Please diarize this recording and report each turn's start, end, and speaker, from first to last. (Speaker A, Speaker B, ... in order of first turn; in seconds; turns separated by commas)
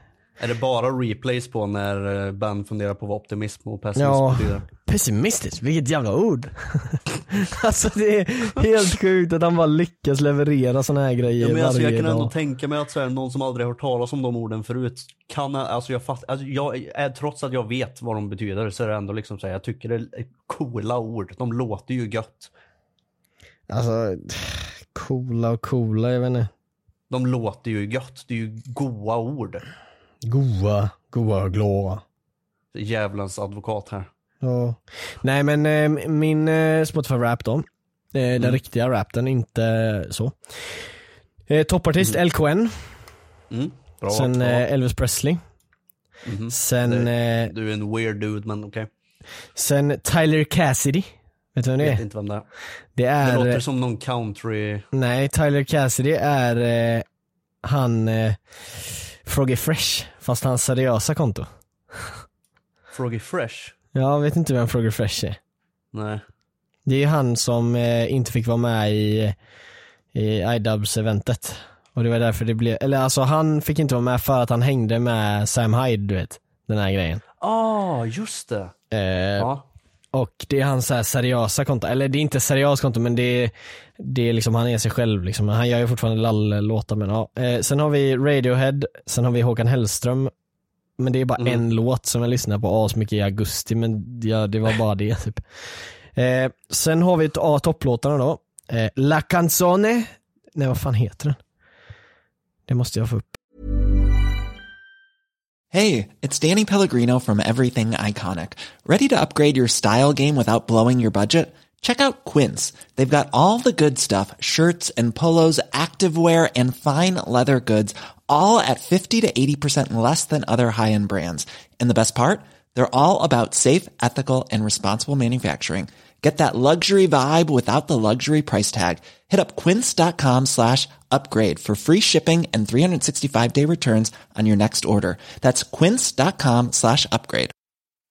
Speaker A: 0.4-4.7, Speaker B: 4.0-12.3, Speaker A: 11.4-22.5, Speaker B: 23.7-26.5, Speaker A: 27.1-29.6, Speaker B: 30.2-32.0, Speaker A: 32.7-34.1, Speaker B: 34.4-40.8, Speaker B: 41.5-42.9, Speaker A: 43.5-44.6, Speaker B: 44.1-45.4, Speaker A: 46.2-48.9, Speaker B: 46.5-47.5, Speaker B: 49.5-52.0, Speaker A: 51.8-52.5, Speaker B: 53.0-53.6, Speaker A: 53.2-54.9, Speaker B: 54.9-57.0, Speaker B: 57.6-62.1, Speaker A: 62.9-63.7, Speaker B: 63.9-65.4, Speaker A: 65.9-66.2, Speaker B: 66.8-69.3, Speaker B: 70.1-77.2, Speaker A: 77.4-78.7, Speaker B: 78.9-79.5, Speaker A: 79.4-79.6, Speaker B: 80.1-90.3, Speaker B: 91.0-95.4, Speaker B: 96.1-101.4, Speaker B: 102.7-103.4, Speaker C: 105.7-137.5